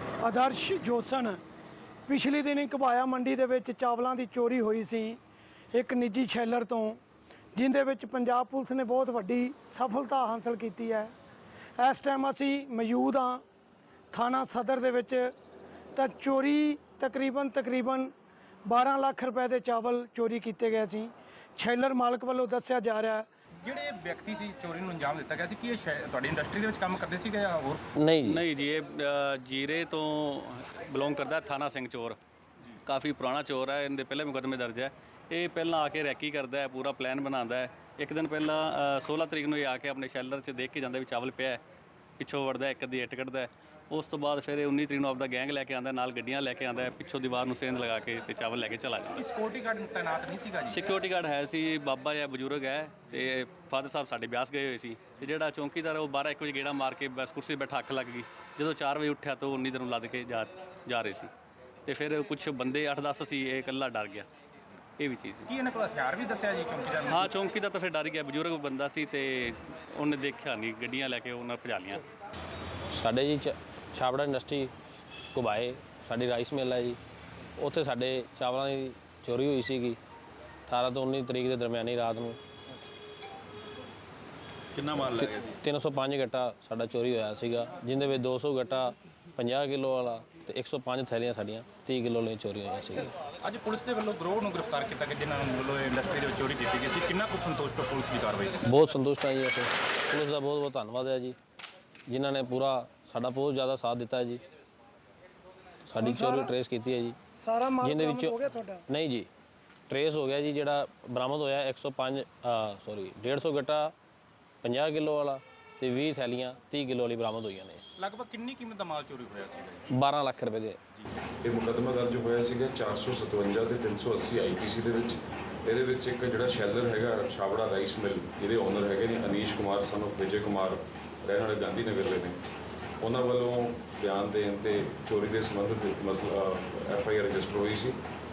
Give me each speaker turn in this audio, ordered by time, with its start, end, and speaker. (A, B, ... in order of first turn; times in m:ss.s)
0:00.2-0:01.4 A
0:02.1-0:05.2 A
0:05.7-0:07.0 A
0:07.5-0:11.1 A
0:11.8-0:13.4 A
0:14.1-0:15.3 A
0:15.9-0:18.1 A
0:18.7-0:23.3 A
0:23.6-0:27.8 B
0:27.9-0:28.4 C
0:28.2-0:32.2 D
0:32.8-0:41.6 D
0:42.2-0:49.2 D
0:49.1-0:50.8 B
0:50.7-1:01.3 D
1:01.8-1:04.3 D
1:05.0-1:05.5 D
1:05.5-1:07.2 B
1:07.1-1:12.0 D
1:12.9-1:14.7 C
1:15.3-1:17.0 C
1:17.6-1:20.0 C
1:20.7-1:22.4 C
1:24.9-1:33.1 C
1:33.4-1:38.6 B
1:38.6-1:41.4 C
1:42.1-1:44.4 C
1:45.8-1:47.2 C
1:46.0-1:46.5 A
1:47.4-1:48.8 A
1:47.8-1:49.3 C
1:49.9-1:53.9 C
1:54.6-1:57.8 C
1:58.0-1:59.8 B
1:59.9-2:00.8 C
2:01.4-2:12.4 E
2:13.0-2:18.0 E